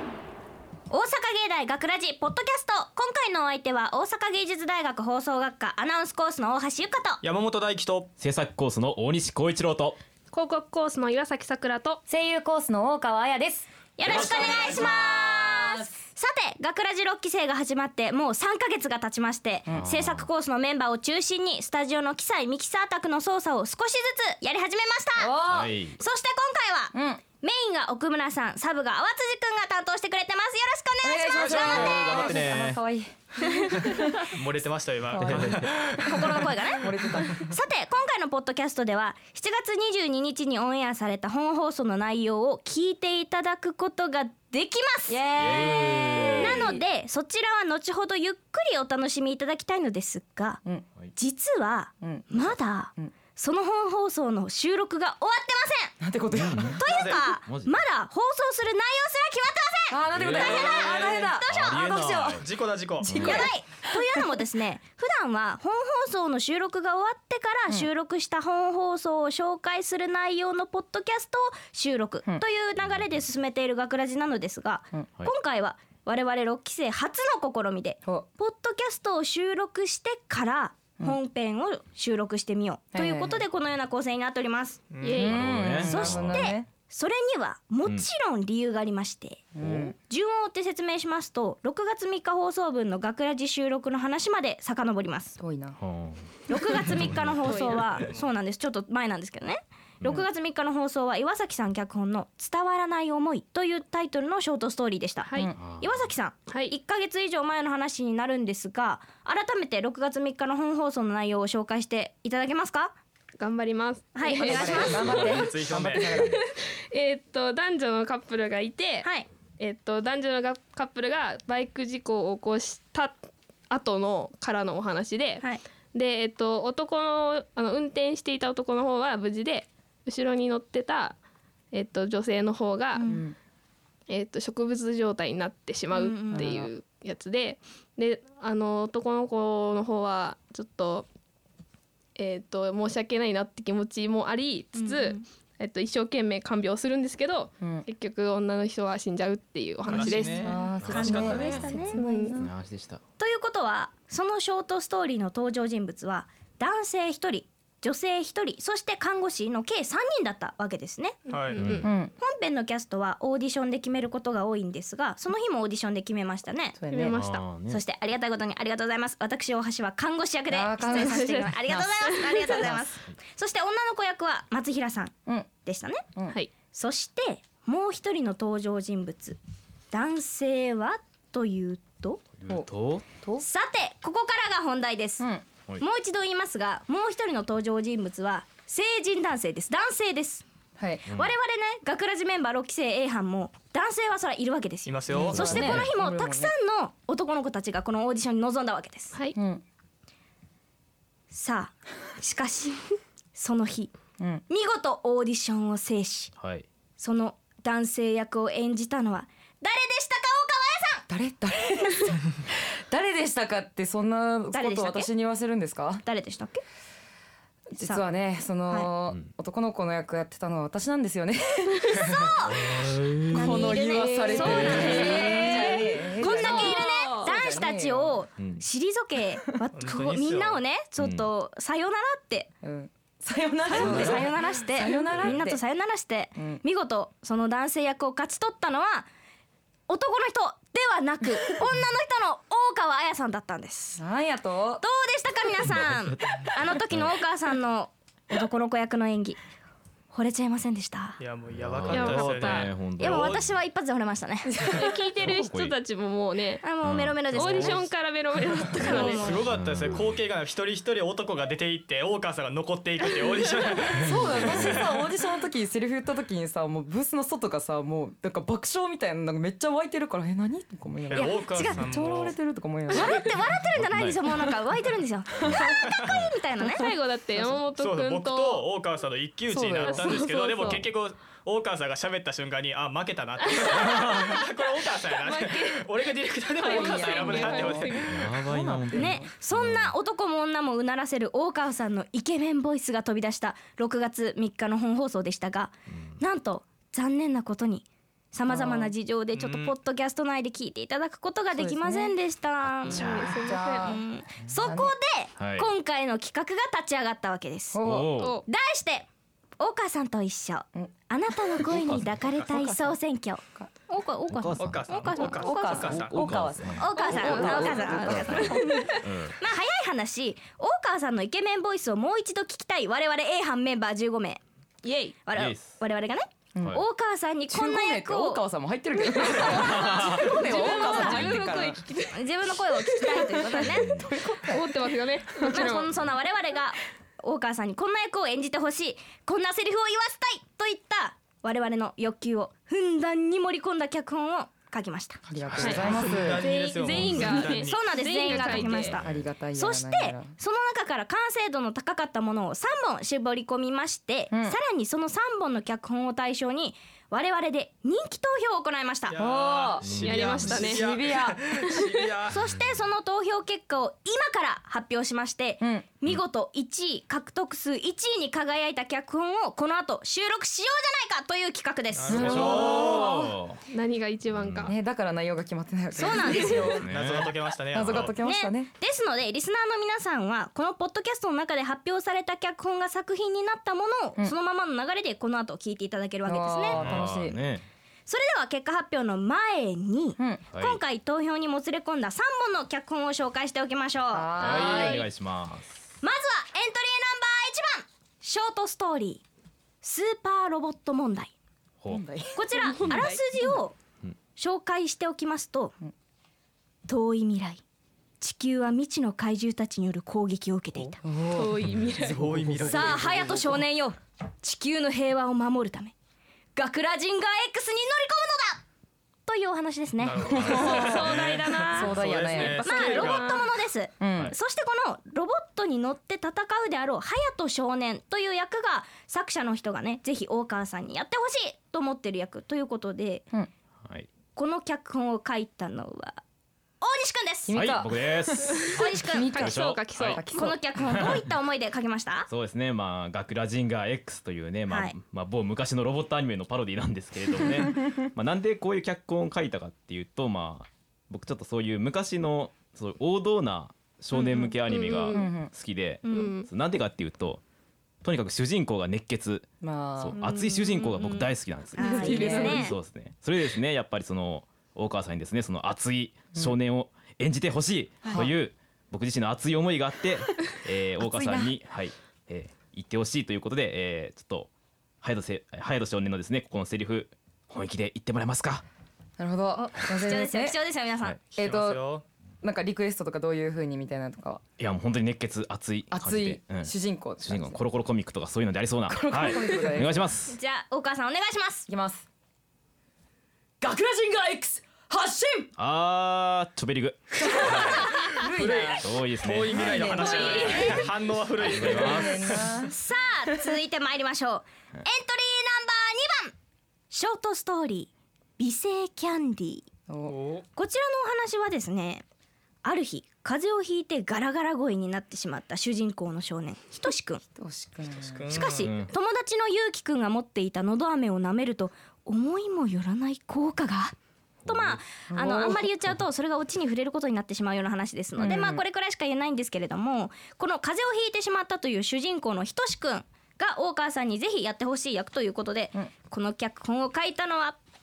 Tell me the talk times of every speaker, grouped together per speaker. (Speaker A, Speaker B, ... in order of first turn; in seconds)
Speaker A: 0.9-7.2, 14.0-32.2, 33.4-33.8, 36.0-50.6, 51.1-55.9, 56.8-62.4, 63.2-84.8, 85.8-89.4, 90.0-95.4, 96.5-112.9, 114.1-115.5, 132.9-133.3, 135.9-136.5, 144.7-145.2, 150.9-152.0, 153.2-161.2, 162.2-166.8, 167.7-175.1, 175.6-176.0, 176.7-179.4, 179.9-182.2, 183.4-190.4, 191.1-199.2, 201.3-203.9, 204.5-206.3, 207.0-211.0, 214.5-215.1, 216.0-216.6, 222.0-222.6, 223.3-232.5, 233.7-239.1, 239.9-244.0, 244.8-249.4, 250.1-251.2, 253.0-254.8, 256.6-257.8, 258.8-259.4, 271.1-271.8, 272.9-276.9, 288.9-303.1, 303.8-307.8, 308.4-309.1, 309.6-315.9, 316.8-324.4, 325.2-328.4, 329.1-331.4, 332.0-334.2, 335.5-345.2, 347.4-359.2, 362.3-372.7, 375.9-376.8, 378.2-386.8, 388.1-395.1, 396.0-399.2, 399.8-401.3, 402.3-403.7, 404.4-405.7, 406.9-407.6, 408.2-411.0, 412.7-415.9, 416.6-418.6, 419.3-421.9, 422.6-433.2, 434.4-436.2, 436.8-437.6, 438.7-439.6, 440.3-442.3, 444.7-444.9, 456.0-456.3, 460.2-462.7, 479.6-481.2, 490.2-491.7, 497.3-498.3, 499.8-500.9, 502.6-506.3, 506.9-509.6, 510.6-512.0, 512.6-517.2, 518.3-537.6
Speaker B: 7.2-8.1, 31.3-32.3, 34.4-36.2, 56.9-57.2, 60.6-61.3, 62.4-63.3, 84.9-85.3, 98.0-98.2, 114.8-116.2, 149.8-151.7, 161.3-161.6, 194.8-195.4, 229.7-230.6, 251.2-253.4, 258.9-265.0, 271.1-272.4, 277.8-287.9, 299.3-299.7, 314.6-316.1, 345.5-347.9, 359.1-362.4, 371.9-373.1, 376.9-378.1, 412.1-413.1, 420.0-423.4, 481.4-482.0, 498.2-502.5, 510.1-510.4, 518.0-518.7
Speaker C: 8.2-10.0, 14.0-14.9, 19.7-20.3, 25.5-26.0, 31.6-32.8, 35.2-35.6, 45.4-46.8, 56.3-56.8, 57.4-57.8, 60.1-62.5, 63.1-63.5, 85.2-86.5, 89.6-89.9, 95.8-97.4, 105.6-106.1, 150.8-153.0, 161.6-161.9, 167.1-167.8, 182.4-183.0, 195.1-195.9, 206.4-206.7, 222.8-223.2, 231.0-231.3, 245.7-247.1, 251.5-253.3, 255.1-255.8, 256.8-257.8, 258.8-260.3, 264.0-264.8, 273.7-274.2, 275.4-276.4, 288.0-289.9, 302.9-303.4, 305.4-305.7, 307.8-308.4, 314.3-315.2, 315.8-319.4, 325.3-325.7, 329.6-330.3, 333.6-334.1, 359.8-360.6, 362.4-362.7, 372.1-373.6, 374.4-374.7, 376.8-377.3, 386.7-387.6, 390.5-390.8, 394.4-395.9, 437.5-440.2, 440.9-441.2, 442.3-457.4, 458.0-459.5, 460.0-474.5, 475.0-478.6, 484.6-490.4, 495.6-497.9, 498.8-500.4, 501.4-502.2, 518.6-518.9, 524.5-524.8
Speaker D: 10.3-12.0, 85.0-85.5, 97.4-97.8, 105.2-105.5, 106.5-106.7, 113.4-115.4, 116.2-125.4, 125.9-131.2, 131.7-133.1, 134.1-141.1, 142.2-150.6, 151.8-152.4, 161.3-161.9, 166.9-167.4, 170.9-172.6, 223.6-227.3, 251.9-252.7, 254.7-256.7, 257.2-259.4, 276.7-278.7, 279.8-280.8, 283.4-284.4, 285.1-285.9, 286.5-288.3, 302.8-304.0, 308.2-308.4, 316.9-318.8, 324.8-325.2, 329.5-333.6, 334.3-335.9, 345.6-349.0, 360.0-360.9, 361.6-362.0, 373.7-374.7, 402.8-403.1, 411.3-412.2, 420.7-421.9, 422.5-423.4, 439.2-440.2, 454.1-455.3, 456.1-456.5, 461.8-462.5
Speaker E: 12.1-15.9, 25.2-25.6, 26.9-27.2, 31.0-34.3, 35.1-37.5, 45.3-46.7, 52.0-53.1, 56.0-56.8, 59.9-61.4, 63.1-63.5, 82.9-83.4, 85.0-86.7, 89.5-89.9, 95.4-95.8, 114.3-116.4, 133.1-133.3, 136.3-136.7, 147.6-147.8, 150.0-152.5, 161.8-162.1, 166.8-167.2, 170.5-172.0, 190.8-191.0, 195.1-196.5, 199.3-199.6, 211.1-216.0, 217.7-228.2, 232.6-235.6, 236.3-236.6, 244.0-244.8, 254.5-254.8, 264.0-273.2, 279.5-280.8, 286.6-289.2, 298.5-298.9, 301.5-302.1, 302.9-304.9, 307.7-308.1, 311.6-312.9, 315.2-318.8, 326.6-326.8, 327.5-331.8, 334.2-334.5, 345.3-346.4, 348.9-350.3, 354.3-354.6, 359.2-359.9, 360.7-361.4, 365.6-365.9, 372.1-372.9, 374.6-376.9, 377.7-378.7, 386.2-387.4, 394.1-395.0, 401.9-402.5, 411.0-413.6, 420.3-423.0, 424.0-424.3, 437.5-440.6, 455.1-455.5, 459.6-460.2, 461.9-462.7, 471.0-471.5, 479.2-480.6, 481.4-481.8, 482.4-484.4, 485.9-487.6, 488.9-490.1, 491.7-492.1, 493.6-495.5, 497.3-498.9, 499.5-500.8, 501.6-502.7, 509.9-510.1, 517.4-518.2, 525.1-525.7, 528.2-528.6